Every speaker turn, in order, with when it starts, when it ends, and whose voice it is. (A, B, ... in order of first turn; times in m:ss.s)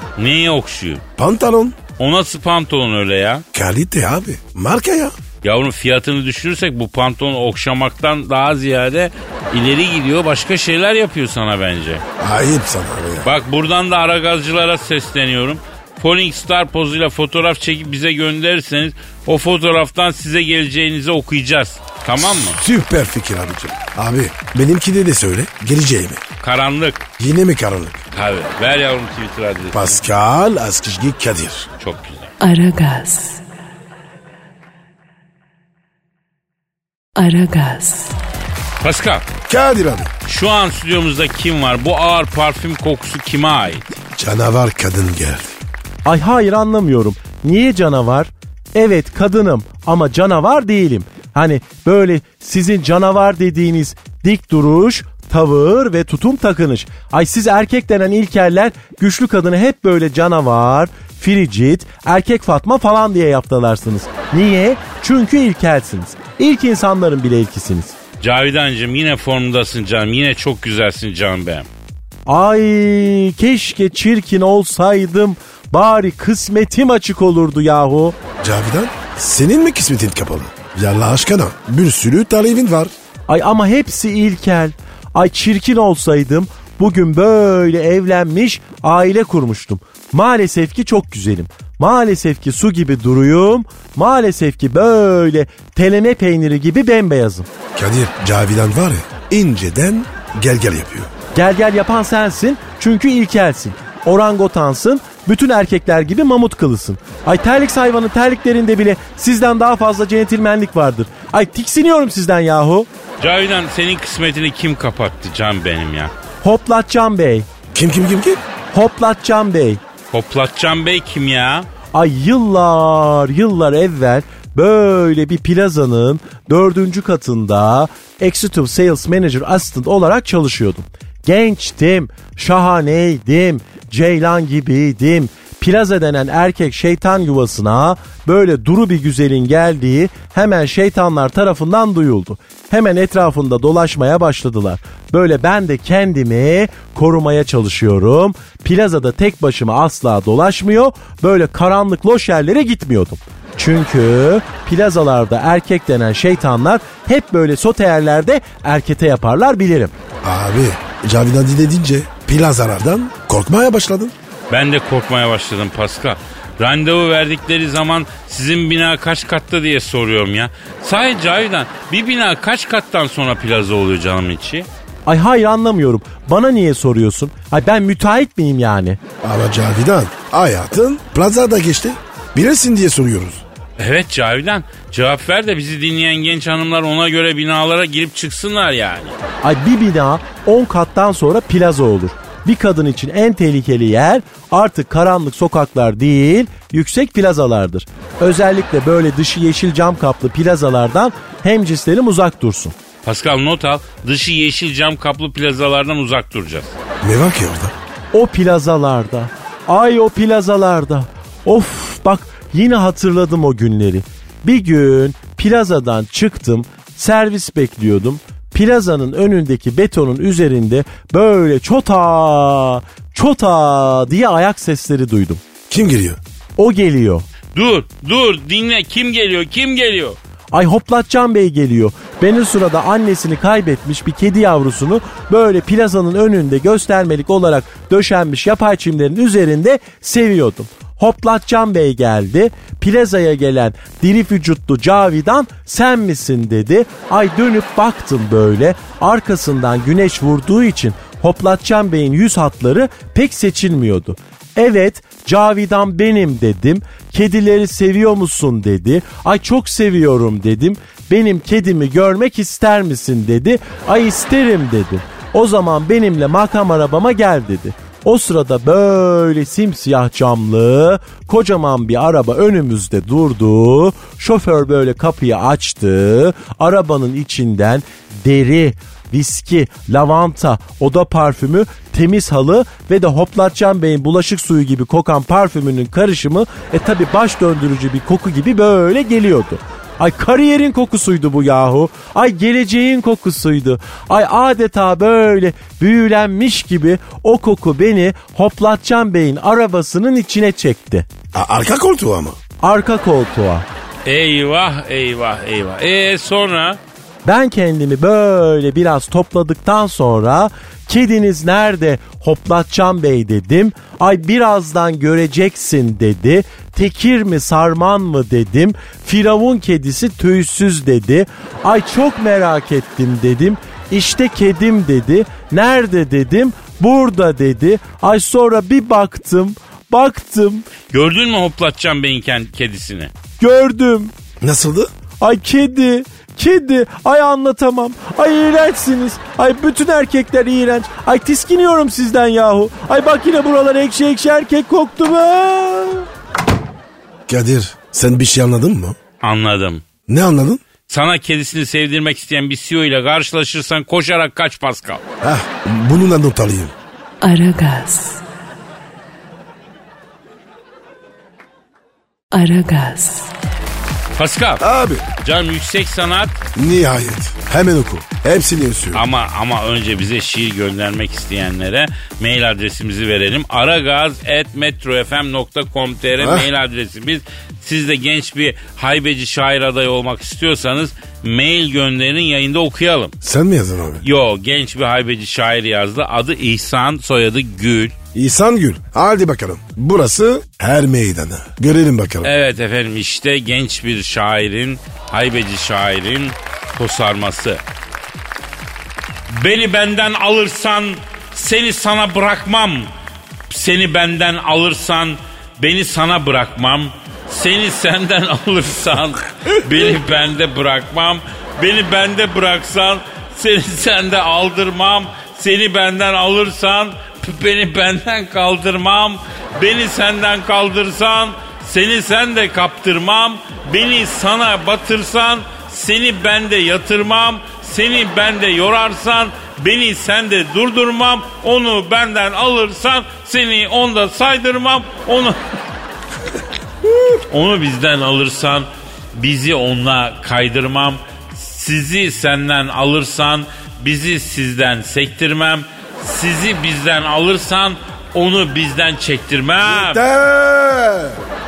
0:00.2-0:01.0 A
0:01.2-0:01.8 B
0:02.0-0:03.4 A
0:03.5-0:05.1 B
0:05.4-0:12.0 A
0:12.2-0:13.3 B
0:13.2-0:22.6 A
0:22.2-0:26.2 B
0:26.4-0:27.0 A
0:27.2-0:28.0 B
0:28.1-0:30.0 A
0:29.7-0:31.7 B
0:31.8-0:32.3 A
0:32.4-0:33.4 C
0:37.2-0:38.2 C
0:38.8-0:39.2 A
0:39.5-0:40.1 B
0:40.2-0:43.8 A
0:44.1-0:45.6 B
0:46.0-1:08.0 D
1:08.2-1:11.7 A
1:12.3-1:18.2 D
1:18.4-1:22.9 B
1:23.3-1:37.5 D
1:37.7-1:41.1 B
1:41.3-1:52.9 D
1:53.2-1:56.1 A
1:56.4-1:57.5 D
1:57.7-1:58.4 B
1:58.7-1:59.8 D
2:00.1-2:01.7 A
2:01.9-2:39.9 D
2:40.2-2:44.1 B
2:44.5-2:54.7 A
2:55.0-2:59.0 D
2:59.2-3:03.4 B
3:03.8-3:09.2 A
3:09.4-3:22.7 D
3:23.0-3:26.7 A
3:27.0-3:27.7 B
3:28.1-3:45.4 D
3:45.7-3:46.2 B
3:46.6-3:47.2 D
3:47.5-3:50.2 A
3:50.5-5:01.1 D
5:01.3-5:02.4 B
5:02.6-5:03.6 D
5:04.0-5:06.8 A
5:07.2-5:30.7 D
5:30.9-5:33.1 A
5:33.4-5:34.1 D
5:34.4-5:34.9 B
5:35.2-5:46.1 D
5:47.3-5:49.0 B
5:49.2-5:49.8 A
5:50.1-5:50.6 B
5:50.9-5:55.0 A
5:55.2-5:56.7 B
5:57.2-5:58.2 C
6:02.3-6:03.3 C
6:04.2-6:04.6 A
6:04.6-6:05.0 B
6:05.2-6:06.4 A
6:06.6-6:09.0 B
6:08.9-6:23.1 A
6:16.2-6:16.5 B
6:23.2-6:24.0 B
6:24.0-6:27.9 A
6:28.1-6:32.3 B
6:32.2-6:37.6 A
6:39.3-6:42.9 A
6:43.5-7:15.4 A
7:17.3-7:30.0 A
7:29.6-7:31.2 B